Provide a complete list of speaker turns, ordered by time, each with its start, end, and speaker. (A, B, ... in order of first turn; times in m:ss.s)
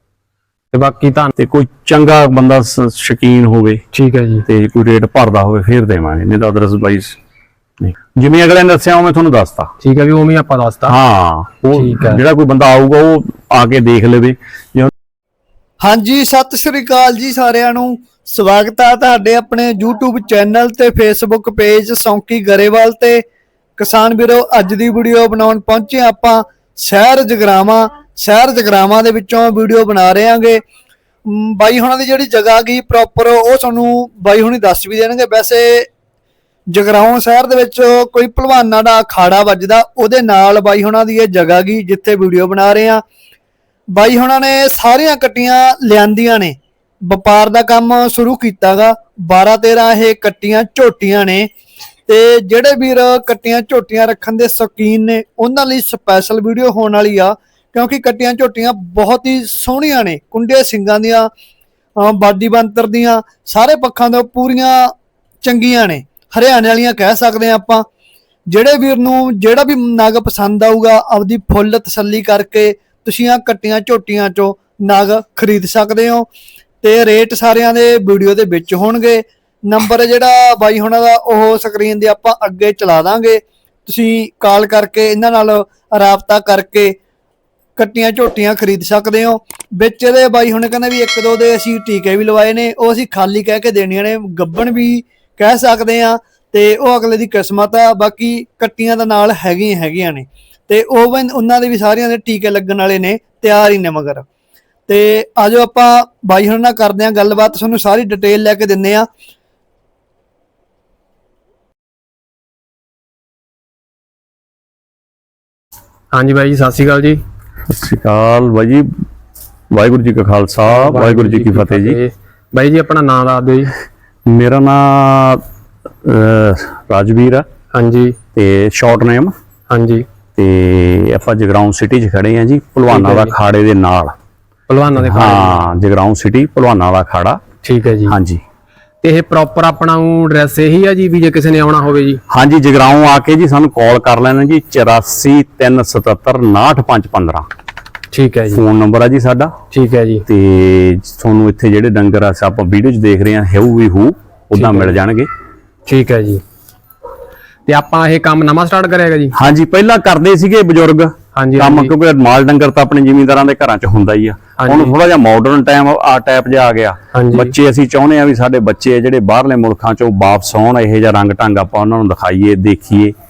0:00.7-0:01.3 A
0:01.4-0:03.8 B
0:03.9-0:04.5 A
0:04.5-0:07.2 B
0:07.8-0:09.7 B
0:09.8-0:11.0 A
0:10.9-0:14.9 B
0:11.8-0:12.2 A
0:15.8-0:23.2 C
0:23.8-0:30.6 C
0:31.3-0:35.9 C
0:36.7-0:43.0 C
0:43.9-0:51.5 C
0:52.1-1:01.3 C
1:02.0-1:07.8 C
1:08.5-1:16.3 C
1:16.8-1:27.0 C
1:27.8-1:44.2 C
1:44.9-1:49.1 C
1:56.1-1:57.2 A
1:57.7-1:58.9 B
1:59.7-2:02.0 B
2:00.7-2:03.7 A
2:04.3-2:05.4 B
2:06.0-2:07.5 B
2:07.7-2:08.2 A
2:08.4-2:09.3 B
2:09.7-2:10.0 A
2:10.4-2:14.2 B
2:12.9-2:13.4 A
2:14.7-2:15.6 A
2:15.0-2:17.4 B
2:17.6-2:18.2 A
2:18.1-2:18.4 B
2:19.0-2:22.2 A
2:22.3-2:27.5 B
2:28.1-2:28.6 A
2:28.5-2:29.5 B
2:29.7-2:30.3 A
2:30.3-2:35.3 B
2:34.6-2:35.0 A
2:35.9-2:36.4 A
2:37.7-2:39.3 A
2:39.4-2:53.1 B
2:41.4-2:41.9 A
2:44.6-2:44.9 A
2:47.1-2:47.5 A